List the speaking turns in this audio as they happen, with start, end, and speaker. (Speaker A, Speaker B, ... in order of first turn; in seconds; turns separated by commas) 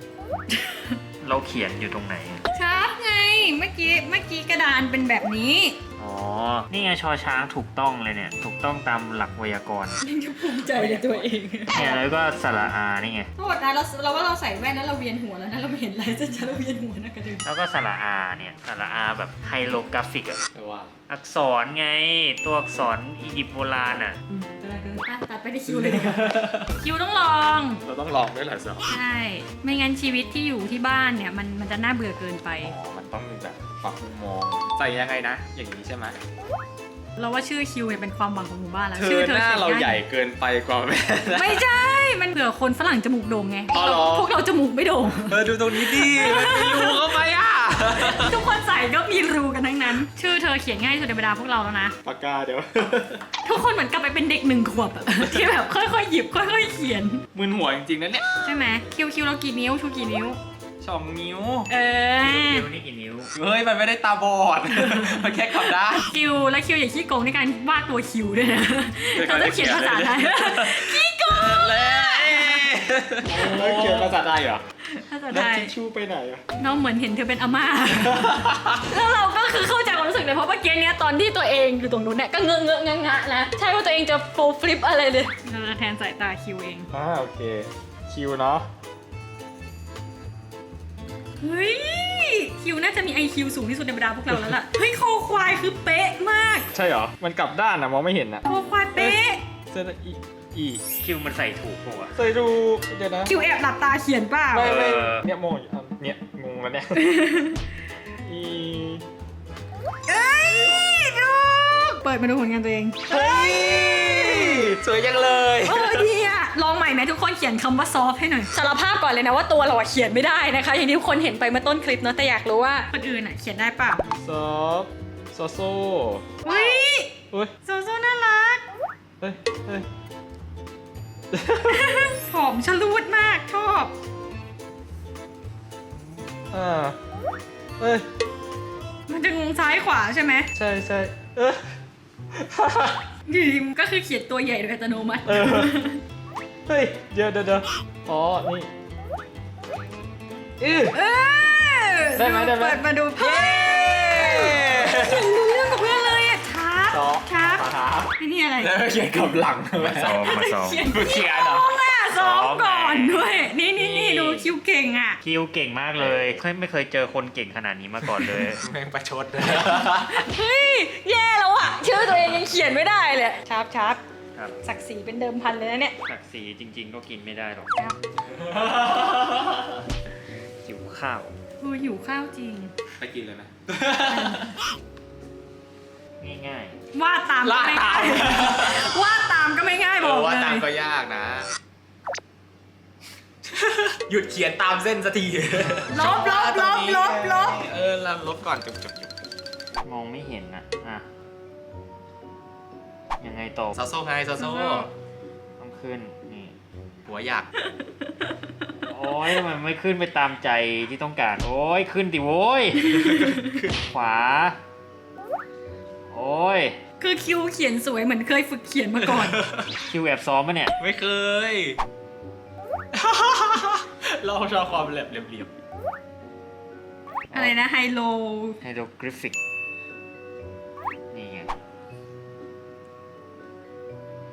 Speaker A: 0.5-0.9, Speaker B: 1.2-2.5, Speaker A: 2.5-5.8, Speaker B: 6.0-10.0, Speaker A: 10.0-12.0, Speaker B: 11.7-13.3, Speaker A: 13.4-17.4, Speaker B: 17.4-20.4, Speaker C: 20.5-20.9, Speaker B: 21.1-24.2, Speaker A: 24.3-27.8, Speaker C: 25.7-26.6, Speaker C: 27.8-28.9, Speaker A: 28.9-32.7, Speaker C: 32.6-36.2, Speaker A: 37.1-40.0, Speaker C: 38.9-41.6, Speaker A: 41.3-47.1, Speaker C: 43.7-44.3, Speaker C: 45.3-48.4, Speaker A: 48.0-51.9, Speaker C: 52.0-53.2, Speaker A: 53.4-57.2, Speaker C: 57.3-58.2, Speaker A: 58.4-60.4, Speaker C: 60.8-61.6, Speaker A: 61.7-62.7, Speaker B: 62.3-63.3, Speaker C: 63.3-66.1, Speaker A: 66.0-72.7, Speaker C: 69.1-74.6, Speaker A: 74.8-75.7, Speaker C: 75.3-76.4, Speaker A: 76.6-86.9, Speaker C: 78.3-78.7, Speaker C: 86.9-88.7, Speaker A: 91.4-96.7, Speaker C: 96.7-98.4, Speaker A: 98.4-99.4, Speaker C: 99.7-100.8, Speaker B: 101.0-102.2, Speaker C: 102.1-103.3, Speaker A: 103.2-105.0, Speaker C: 104.5-107.2, Speaker B: 104.6-105.2, Speaker A: 106.9-107.6, Speaker C: 108.2-109.0, Speaker A: 110.1-114.7, Speaker C: 113.1-116.0, Speaker A: 115.6-124.0, Speaker C: 124.2-126.2, Speaker A: 126.4-128.6, Speaker C: 129.2-129.8, Speaker C: 131.3-131.9, Speaker A: 131.6-133.9, Speaker C: 136.5-136.9, Speaker C: 137.8-138.0, Speaker A: 139.1-140.5, Speaker C: 140.6-141.6, Speaker C: 142.3-143.0, Speaker A: 143.3-146.0, Speaker C: 145.2-145.7, Speaker C: 146.7-148.7, Speaker C: 150.6-151.0, Speaker A: 150.9-157.7, Speaker C: 152.2-155.2, Speaker C: 156.9-161.8, Speaker A: 158.2-158.8, Speaker B: 159.8-160.9, Speaker A: 160.0-165.2, Speaker B: 162.1-163.4, Speaker C: 163.8-164.5, Speaker B: 165.2-168.6, Speaker C: 168.3-170.2, Speaker A: 169.8-174.0, Speaker A: 174.6-175.9, Speaker B: 176.0-177.7, Speaker C: 178.3-179.6, Speaker B: 180.6-181.3, Speaker A: 181.6-182.7, Speaker C: 183.0-184.4, Speaker A: 184.1-184.5, Speaker B: 186.2-186.7, Speaker A: 186.9-190.7, Speaker C: 187.4-188.9, Speaker C: 190.0-191.5, Speaker C: 193.5-199.1, Speaker A: 195.9-197.6, Speaker B: 199.8-201.1, Speaker B: 203.2-203.8, Speaker C: 203.7-204.9, Speaker A: 204.4-204.9, Speaker B: 205.6-206.5, Speaker C: 207.1-207.5, Speaker A: 207.6-208.3, Speaker B: 208.9-213.0, Speaker A: 212.9-213.6, Speaker B: 213.7-214.6, Speaker B: 216.1-216.8, Speaker A: 217.0-219.4, Speaker C: 219.1-219.7, Speaker B: 219.9-220.7, Speaker C: 220.8-221.8, Speaker C: 222.9-225.5, Speaker A: 227.3-228.6, Speaker B: 228.6-229.3, Speaker B: 231.1-231.5